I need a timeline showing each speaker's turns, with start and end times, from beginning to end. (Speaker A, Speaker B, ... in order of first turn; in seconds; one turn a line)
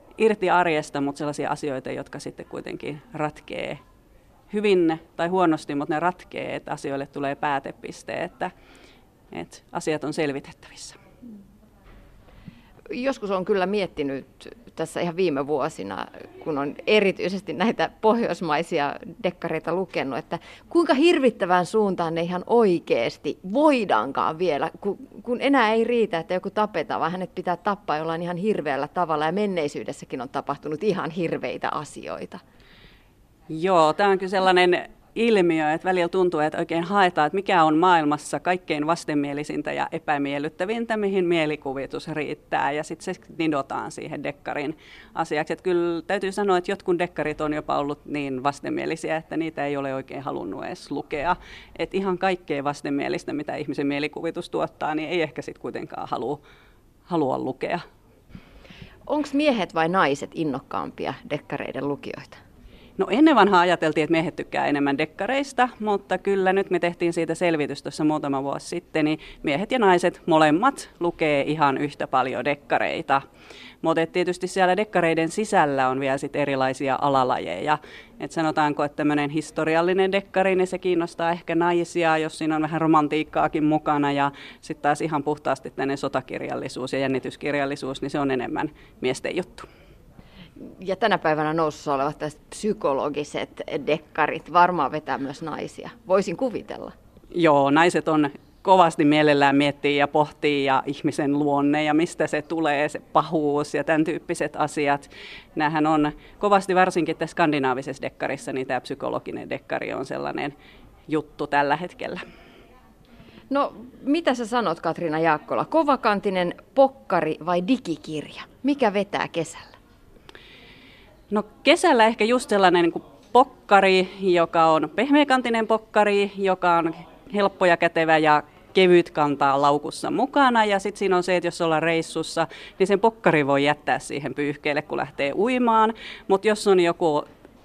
Speaker A: 0.2-3.8
Speaker A: 4.5-8.5
Speaker A: 9.3-11.0
Speaker B: 12.9-32.4
Speaker A: 33.5-56.4
Speaker A: 57.1-57.8
Speaker B: 59.1-62.4
Speaker A: 63.0-73.2
Speaker A: 73.8-89.7
Speaker B: 90.6-96.9
Speaker A: 97.3-110.5
Speaker A: 111.1-112.2
Speaker B: 113.5-119.8
Speaker A: 121.3-137.3